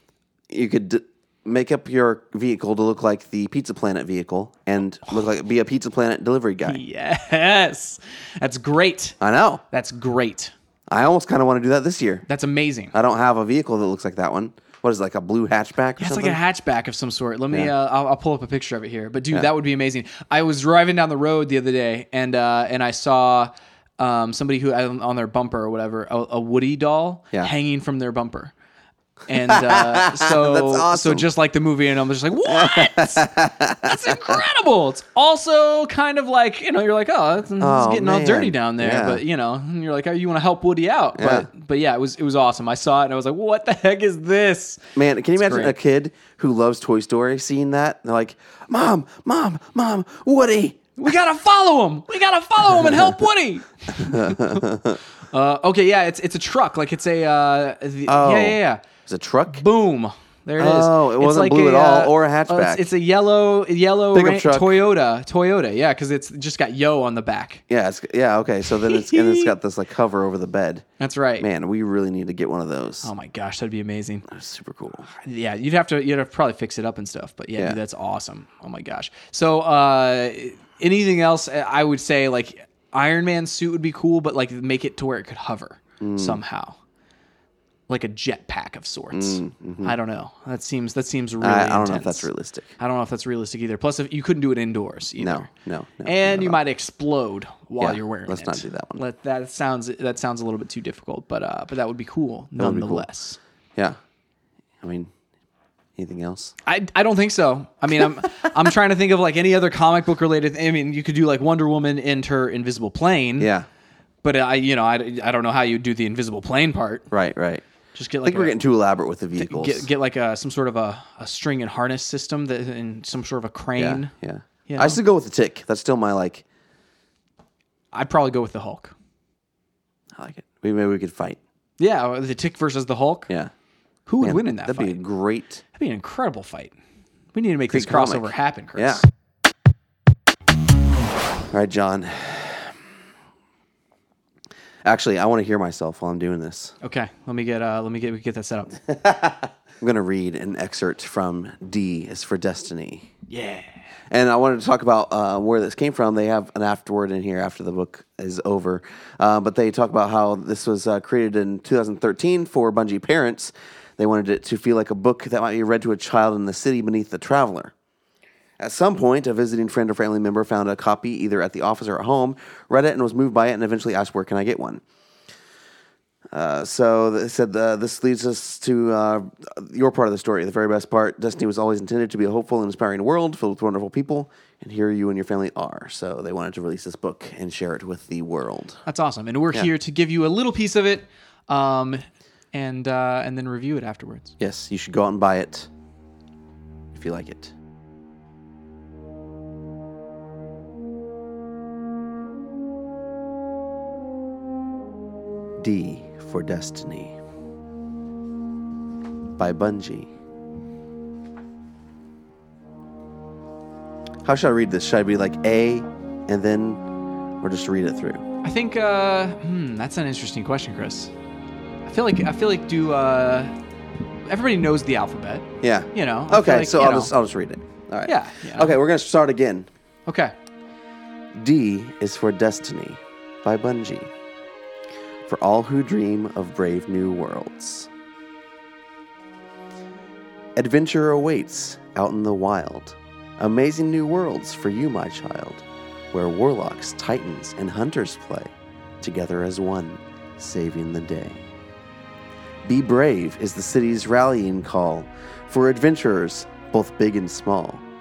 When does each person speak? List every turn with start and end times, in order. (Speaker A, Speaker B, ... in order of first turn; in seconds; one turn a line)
Speaker A: 0.5-6.8
Speaker B: 6.6-9.2
Speaker A: 9.2-9.6
Speaker B: 9.7-10.5
Speaker A: 10.9-12.2
Speaker B: 12.3-12.9
Speaker A: 12.9-16.4
Speaker B: 16.0-28.5
Speaker B: 29.3-44.8
Speaker A: 29.4-31.2
Speaker A: 32.5-34.4
Speaker A: 37.6-39.2
Speaker A: 41.2-41.5
Speaker A: 45.0-50.9
Speaker B: 45.4-45.7
Speaker B: 51.0-54.7
Speaker A: 52.6-53.1
Speaker A: 54.0-55.0
Speaker B: 55.3-58.8
Speaker A: 58.1-59.6
Speaker B: 59.5-67.6
Speaker A: 60.6-62.8
Speaker A: 64.1-64.8
Speaker A: 67.7-70.8
Speaker B: 68.8-69.5
Speaker B: 71.0-71.5
Speaker A: 71.4-73.1
Speaker B: 73.0-74.2
Speaker A: 74.3-75.1
Speaker B: 75.2-86.8
Speaker A: 86.0-86.4
Speaker B: 87.9-92.3
Speaker A: 89.1-89.9
Speaker A: 91.4-92.7
Speaker B: 92.8-95.5
Speaker A: 95.2-96.6
Speaker B: 96.0-103.4
Speaker A: 97.8-99.0
Speaker A: 102.6-103.0
Speaker A: 104.8-105.1
Speaker A: 106.0-106.5
Speaker B: 106.7-113.5
Speaker A: 113.4-113.7
Speaker B: 114.2-117.1
Speaker A: 117.1-117.6
Speaker B: 118.0-118.6
Speaker A: 118.2-119.9
Speaker B: 119.4-124.1
Speaker A: 123.8-126.4
Speaker B: 124.7-125.0
Speaker B: 127.9-128.9
Speaker A: 130.2-131.4
Speaker B: 131.8-133.3
Speaker B: 134.1-135.0
Speaker A: 134.2-135.6
Speaker B: 135.7-136.7
Speaker B: 137.3-139.1
Speaker A: 137.7-139.0
Speaker A: 141.5-142.7
Speaker A: 144.8-146.7
Speaker B: 146.8-148.8
Speaker A: 148.9-153.1
Speaker B: 153.3-153.7
Speaker A: 154.1-167.7
Speaker A: 168.6-174.8
Speaker A: 176.3-188.8
Speaker B: 188.8-194.3
Speaker A: 194.4-195.7
Speaker A: 196.9-197.5
Speaker A: 205.6-207.2
Speaker A: 209.4-210.1
Speaker A: 214.2-216.8
Speaker A: 217.4-218.2
Speaker B: 218.4-221.1
Speaker B: 221.8-223.5
Speaker B: 224.3-227.1
Speaker A: 225.6-229.7
Speaker B: 228.0-228.8
Speaker B: 230.1-230.3
Speaker A: 231.3-234.1
Speaker A: 235.2-237.9
Speaker A: 240.6-251.4
Speaker A: 252.6-257.8